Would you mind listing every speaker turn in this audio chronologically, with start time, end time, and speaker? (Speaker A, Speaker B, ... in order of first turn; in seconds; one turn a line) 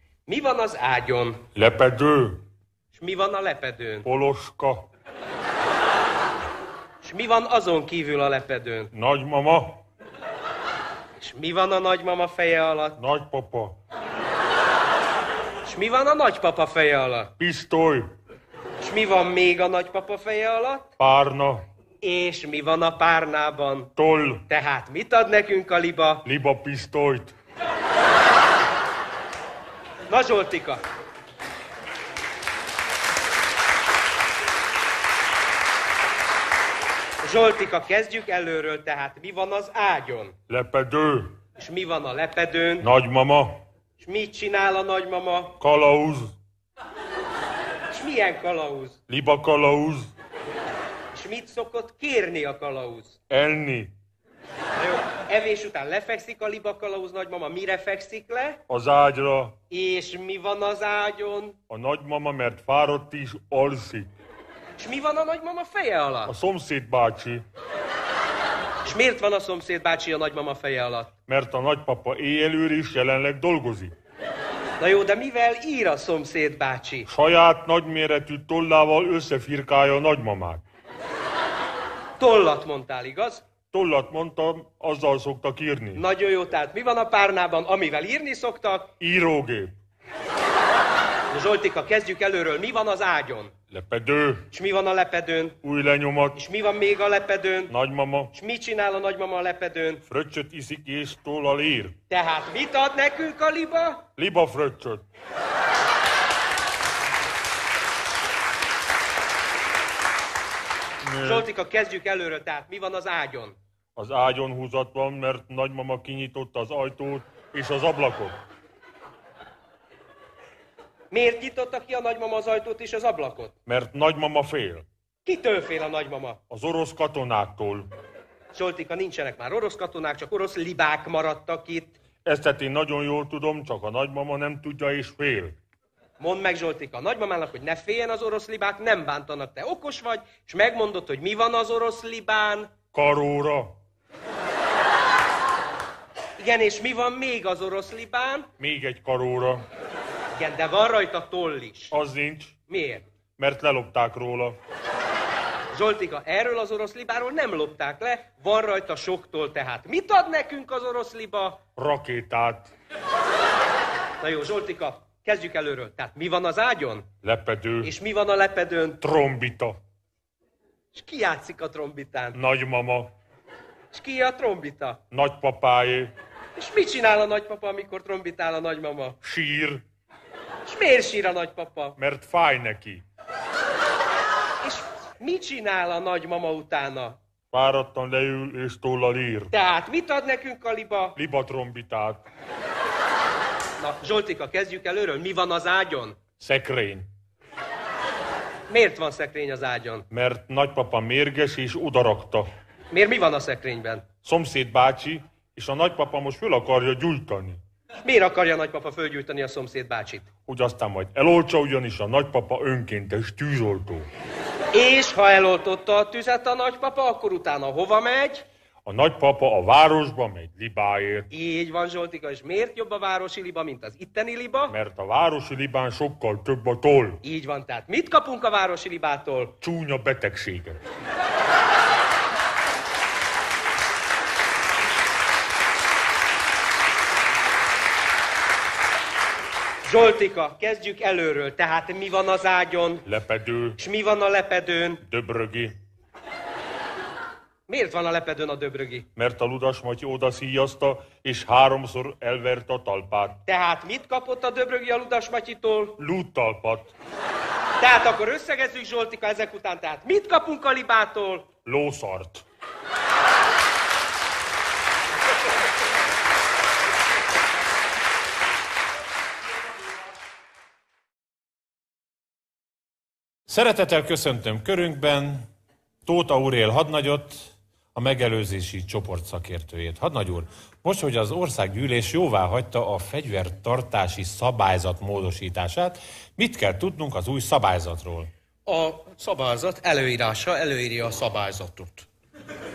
Speaker A: 0.3-1.4
Speaker B: 1.5-2.4
Speaker A: 2.9-4.0
Speaker B: 4.0-4.9
Speaker A: 7.0-8.9
Speaker B: 8.9-9.8
Speaker A: 11.2-13.0
Speaker B: 13.0-13.8
Speaker A: 15.6-17.3
Speaker B: 17.4-18.1
Speaker A: 18.8-20.9
Speaker B: 21.0-21.6
Speaker A: 22.0-23.9
Speaker B: 23.9-24.4
Speaker A: 24.5-26.2
Speaker B: 26.2-27.3
Speaker A: 30.1-30.8
Speaker A: 37.2-40.3
Speaker B: 40.5-41.4
Speaker A: 41.6-42.8
Speaker B: 42.8-43.6
Speaker A: 44.0-45.5
Speaker B: 45.6-46.3
Speaker A: 47.9-49.0
Speaker B: 49.1-50.1
Speaker A: 51.1-53.1
Speaker B: 53.3-53.9
Speaker A: 54.8-58.6
Speaker B: 58.7-59.5
Speaker A: 59.7-61.5
Speaker B: 61.7-64.1
Speaker A: 64.8-66.3
Speaker B: 66.2-67.4
Speaker A: 68.8-71.1
Speaker B: 71.3-73.9
Speaker A: 74.8-77.1
Speaker B: 77.1-80.6
Speaker A: 82.2-83.4
Speaker B: 83.7-86.0
Speaker A: 85.9-88.9
Speaker B: 89.0-89.7
Speaker A: 91.3-93.5
Speaker B: 93.7-94.5
Speaker A: 94.5-95.6
Speaker B: 95.6-96.4
Speaker A: 96.3-97.7
Speaker B: 97.7-98.3
Speaker A: 98.3-100.0
Speaker B: 100.1-102.0
Speaker A: 102.1-104.0
Speaker B: 104.2-105.0
Speaker B: 111.0-111.5
Speaker A: 111.2-113.5
Speaker B: 114.0-118.4
Speaker A: 121.1-123.5
Speaker B: 123.7-124.8
Speaker A: 125.2-126.4
Speaker B: 126.5-127.9
Speaker A: 128.5-131.9
Speaker B: 132.2-135.6
Speaker A: 136.2-142.7
Speaker B: 142.9-143.8
Speaker A: 146.4-148.5
Speaker B: 148.6-149.6
Speaker A: 150.3-151.9
Speaker B: 151.9-152.6
Speaker A: 152.7-153.0
Speaker B: 153.4-154.6
Speaker A: 155.7-161.6
Speaker B: 161.8-162.7
Speaker A: 164.2-167.1
Speaker B: 167.2-167.9
Speaker A: 167.8-169.0
Speaker B: 169.0-169.8
Speaker A: 170.9-172.4
Speaker B: 172.3-173.1
Speaker A: 173.9-175.0
Speaker B: 175.1-176.1
Speaker A: 176.6-179.2
Speaker B: 179.2-179.8
Speaker A: 180.7-181.9
Speaker B: 182.0-183.0
Speaker A: 184.6-187.2
Speaker B: 187.5-189.5
Speaker A: 189.5-191.2
Speaker B: 191.2-192.2
Speaker A: 193.8-196.2
Speaker B: 196.4-197.1
Speaker A: 198.7-200.1
Speaker B: 200.1-202.5
Speaker A: 202.9-204.0
Speaker B: 204.2-207.6
Speaker A: 208.0-210.3
Speaker B: 210.5-214.1
Speaker A: 214.7-218.4
Speaker B: 218.8-221.3
Speaker A: 221.3-224.7
Speaker B: 224.7-227.2
Speaker A: 227.2-229.5
Speaker B: 229.6-230.8
Speaker A: 239.8-243.0
Speaker B: 243.1-243.8
Speaker A: 243.8-245.0
Speaker B: 245.0-245.8
Speaker A: 247.7-249.1
Speaker B: 249.2-253.4
Speaker A: 253.4-256.0
Speaker B: 256.0-256.9
Speaker A: 257.8-261.5
Speaker B: 261.6-262.4
Speaker C: 273.5-275.5
Speaker C: 276.1-288.3
Speaker A: 288.6-292.1